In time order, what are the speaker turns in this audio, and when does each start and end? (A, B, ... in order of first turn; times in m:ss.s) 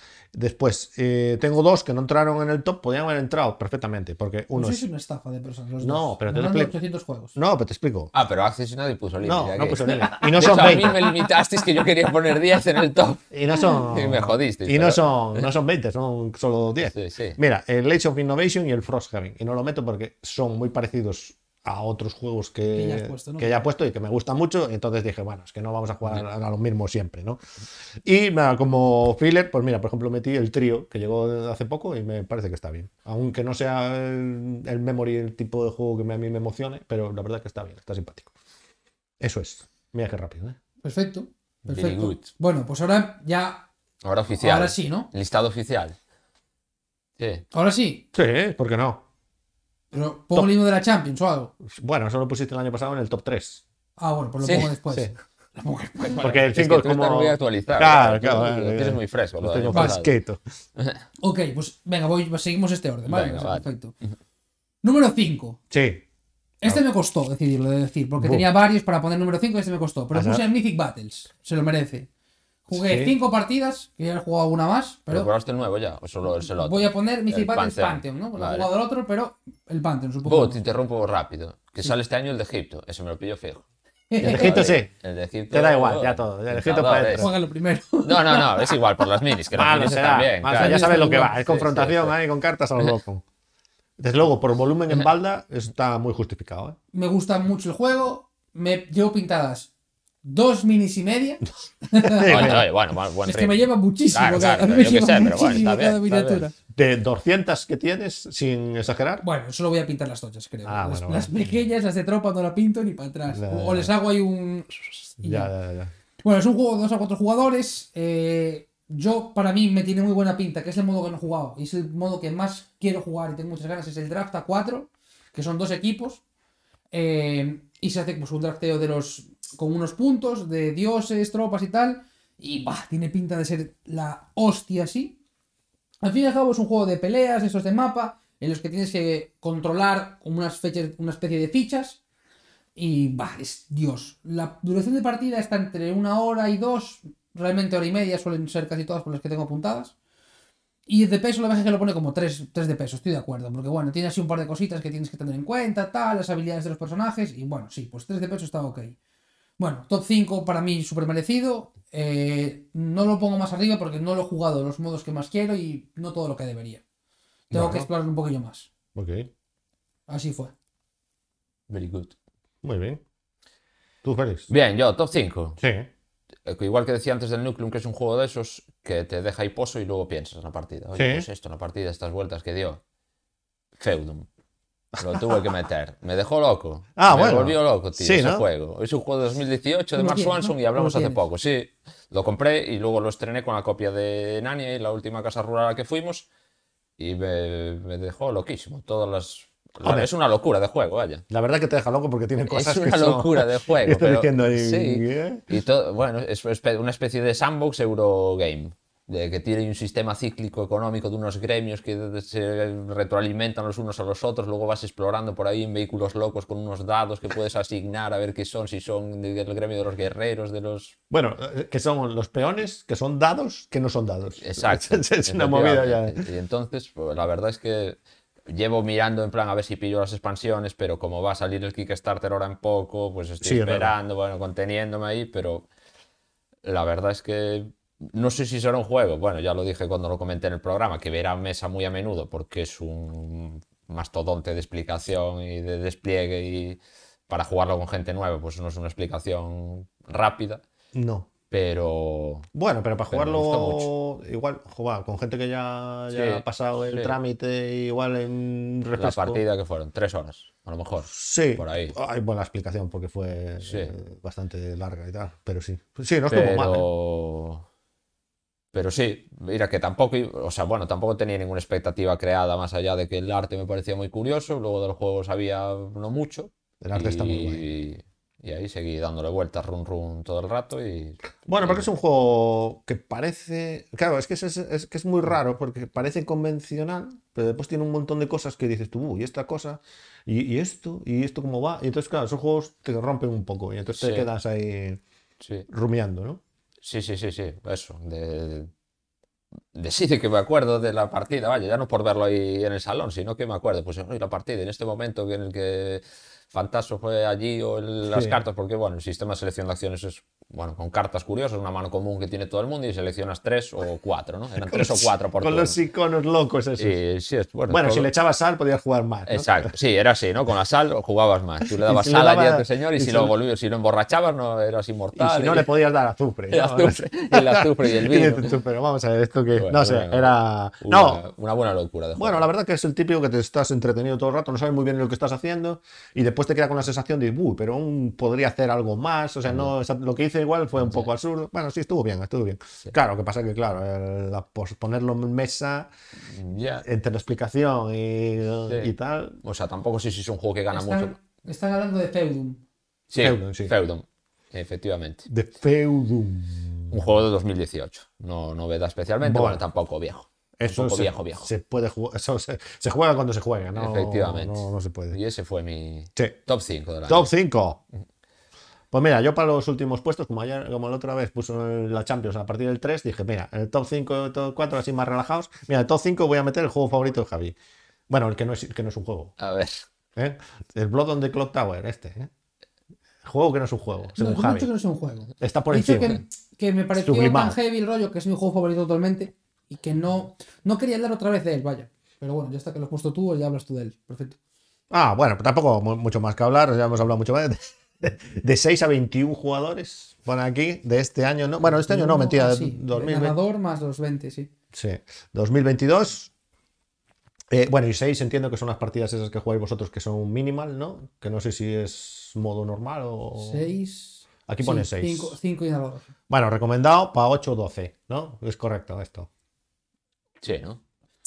0:00.3-0:04.8 A
0:04.5-0:07.3 B
0:05.8-0:06.7 A
0:07.4-0:08.1 A
0:08.1-0:15.5 C
0:09.2-0:11.0 A
0:10.0-0:10.8 B
0:13.3-0:27.4 A
0:16.9-0:17.4 C
0:22.7-0:23.6 B
0:28.0-0:38.3 A
0:39.2-0:40.6 A
0:40.8-0:43.7 B
0:41.7-0:42.3 C
0:44.0-0:46.0 C
0:44.4-0:45.1 B
0:47.2-0:47.4 C
0:47.5-0:48.1 B
0:48.1-0:49.0 A
0:49.9-0:51.5 B
0:51.6-0:53.6 A
0:54.0-0:56.4 B
0:54.4-0:54.7 C
0:56.2-1:00.4 A
0:56.3-1:00.1 C
0:59.7-1:00.0 B
1:01.2-1:03.9 B
1:03.1-1:04.1 C
1:04.8-1:05.6 B
1:05.7-1:06.0 A
1:06.6-1:12.1 B
1:08.2-1:08.4 A
1:10.1-1:10.4 A
1:12.7-1:15.3 B
1:12.7-1:13.1 A
1:15.1-1:18.7 C
1:16.4-1:20.6 B
1:20.2-1:23.6 C
1:24.1-1:24.8 B
1:24.2-1:27.3 C
1:24.2-1:24.9 A
1:25.5-1:27.3 A
1:27.2-1:29.3 B
1:28.0-1:32.2 C
1:29.5-1:33.2 A
1:30.5-1:31.4 B
1:34.0-1:36.8 A
1:36.9-1:39.7 B
1:40.2-1:42.6 B
1:42.0-1:42.7 A
1:42.2-1:46.4 C
1:43.2-1:46.5 B
1:46.7-1:49.2 A
1:49.2-1:55.5 B
1:50.6-1:51.3 A
1:53.3-1:53.9 A
1:55.2-1:55.9 A
1:56.2-2:06.2 B
2:06.9-2:15.2 B
2:16.0-2:22.0 B
2:22.8-2:29.9 B
2:30.9-2:39.0 B
2:39.6-2:46.8 B
2:47.5-2:48.7 B
2:47.5-2:47.9 A
2:48.9-2:49.3 A
2:50.1-2:50.5 B
2:51.7-2:52.1 C
2:52.6-2:53.0 A
2:54.0-2:54.5 A
2:54.5-2:55.6 C
2:55.6-2:55.9 A
2:56.4-3:02.8 C
3:00.9-3:01.3 A
3:03.8-3:04.3 C
3:04.9-3:05.4 A
3:05.0-3:16.3 C
3:07.0-3:08.4 A
3:10.0-3:11.2 B
3:17.0-3:21.2 C
3:19.8-3:20.1 A
3:21.3-3:25.4 A
3:22.5-3:40.9 C
3:41.1-3:46.2 A
3:44.4-3:55.7 C
3:53.4-3:53.9 A
3:56.6-4:10.6 C
4:10.9-4:11.3 A
4:11.5-4:12.5 C
4:12.5-4:19.4 A
4:13.1-4:13.9 C
4:16.1-4:17.2 C
4:19.0-4:21.9 C
4:21.0-4:26.9 A
4:23.6-4:23.9 C
4:26.3-4:27.6 C
4:28.7-4:41.9 C
4:36.8-4:37.6 A
4:41.4-4:55.0 A
4:54.0-4:54.3 C
4:55.4-4:55.7 C
4:55.7-4:56.4 A
4:56.8-4:58.7 C
4:59.7-5:15.8 C
5:08.1-5:08.4 A
5:14.7-5:17.0 A
5:16.8-5:18.1 C
5:17.7-5:19.7 A
5:19.3-5:25.7 C
5:21.7-5:23.3 A
5:25.2-5:31.2 A
5:26.5-5:28.6 C
5:29.6-5:32.4 C
5:32.2-5:45.9 A
5:39.4-5:39.7 C
5:40.8-5:41.1 C
5:46.3-5:46.8 C
5:46.8-5:49.4 A
5:48.6-5:48.9 C
5:49.4-5:51.1 C
5:50.7-5:52.6 B
5:53.1-5:55.2 C
5:53.2-5:53.7 A
5:55.3-5:57.1 A
5:56.9-6:01.5 C
5:59.2-5:59.6 A
6:00.6-6:05.2 A
6:03.7-6:07.3 C
6:07.1-6:07.8 A
6:08.9-6:17.5 A
6:18.1-6:19.4 A
6:19.4-6:19.8 C
6:20.2-6:22.3 A
6:23.2-6:24.7 A
6:24.2-6:34.4 B
6:25.4-6:26.2 A
6:27.0-6:27.6 A
6:34.9-6:43.4 A
6:41.6-6:44.5 B
6:44.7-6:46.3 A
6:47.5-6:53.7 A
6:53.3-6:56.1 B
6:54.5-6:55.4 A
6:56.3-6:59.3 A
7:00.4-7:00.8 C